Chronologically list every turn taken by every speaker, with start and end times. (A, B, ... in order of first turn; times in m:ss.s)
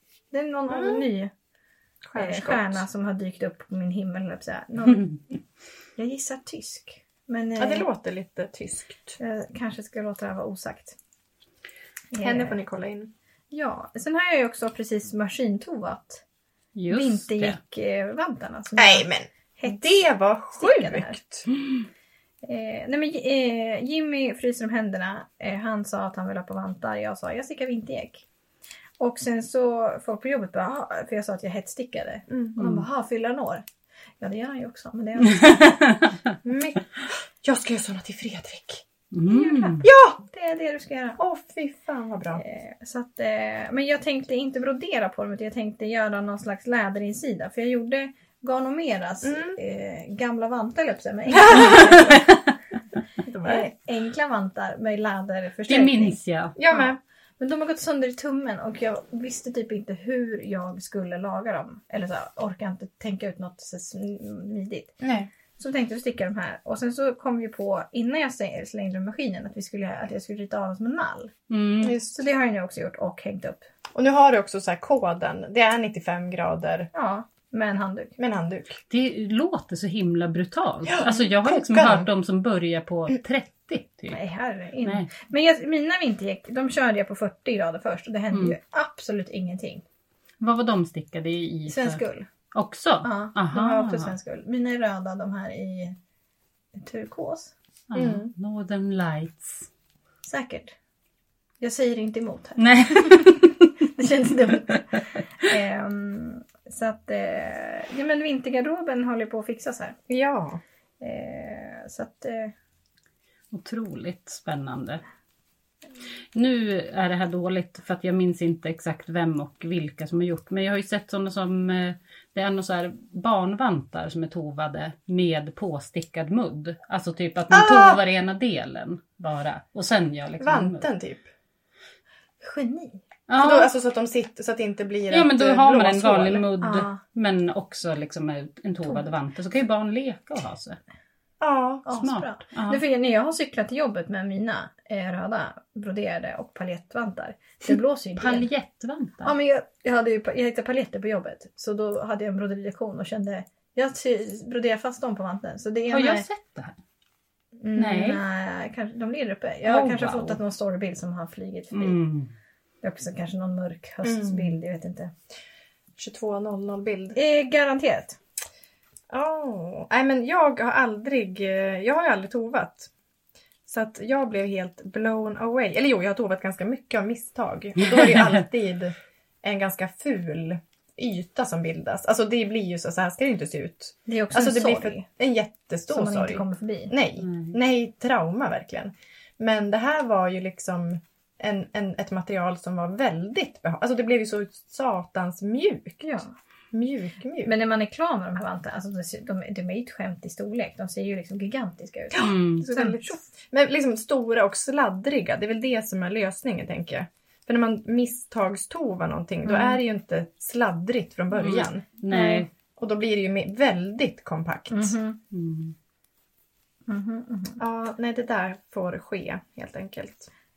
0:00.3-0:01.3 A
0:00.7-0:01.1 B
0:02.0-0:02.8 B
0:02.2-0:05.2 A
0:06.0-0:07.9 A
0:07.6-0:09.2 B
0:09.2-0:11.0 A
0:12.1-0:12.6 A
0:12.2-0:13.1 B
0:13.5-0:16.2 A
0:16.7-0:17.6 C
0:16.9-0:20.0 A
0:18.8-0:21.5 B
0:20.5-0:21.2 A
0:22.4-0:28.2 A
0:29.0-0:33.6 A
0:32.3-0:32.6 B
0:32.6-0:32.8 C
0:34.2-0:35.8 A
0:35.3-0:36.2 C
0:36.4-0:38.8 B
0:39.1-0:39.8 C
0:39.3-0:41.2 A
0:39.8-0:40.2 B
0:41.2-0:42.4 B
0:42.3-0:52.4 A
0:49.2-0:49.6 B
0:51.3-0:51.9 B
0:53.2-0:53.7 B
0:53.4-0:56.2 A
0:55.7-0:56.6 C
0:56.6-0:57.0 B
0:56.7-1:05.0 A
1:05.0-1:05.3 B
1:05.6-1:11.3 A
1:11.5-1:12.0 C
1:11.8-1:12.2 B
1:12.0-1:13.6 A
1:13.9-1:16.9 B
1:16.9-1:18.2 A
1:18.2-1:18.8 B
1:18.9-1:24.2 C
1:20.9-1:22.1 B
1:24.1-1:29.8 A
1:24.8-1:25.1 C
1:30.4-1:32.0 C
1:31.7-1:32.3 A
1:32.5-1:34.1 C
1:33.0-1:36.0 A
1:36.7-1:37.5 A
1:37.9-1:39.7 C
1:37.9-1:38.3 B
1:40.2-1:40.7 A
1:41.6-1:43.4 A
1:42.6-1:43.7 C
1:43.9-1:50.0 A
1:50.1-1:50.6 B
1:51.0-1:52.5 A
1:53.5-1:55.0 C
1:56.3-2:10.8 C
2:07.5-2:08.0 B
2:10.4-2:11.2 B
2:12.4-2:13.0 A
2:13.3-2:13.7 C
2:13.4-2:16.5 B
2:15.1-2:20.8 C
2:16.6-2:17.0 A
2:21.4-2:21.9 B
2:21.8-2:28.5 A
2:22.0-2:22.8 C
2:28.2-2:29.3 C
2:29.2-2:36.2 A
2:35.9-2:36.8 C
2:37.6-2:38.1 B
2:37.8-2:38.2 C
2:37.8-2:42.0 A
2:39.6-2:40.4 C
2:41.7-2:42.3 C
2:42.8-2:45.1 A
2:44.0-2:44.6 B
2:46.0-2:47.2 B
2:47.1-2:48.2 A
2:49.1-2:52.9 B
2:53.7-3:16.2 B
3:04.1-3:05.1 A
3:05.9-3:06.9 A
3:07.2-3:07.5 C
3:16.0-3:16.3 A
3:16.7-3:17.5 B
3:17.4-3:23.2 A
3:22.1-3:35.0 B
3:22.2-3:22.6 C
3:29.4-3:29.8 A
3:31.3-3:32.5 C
3:32.1-3:32.4 A
3:34.7-3:35.2 A
3:35.3-3:35.7 C
3:36.9-3:37.6 A
3:37.6-3:40.3 B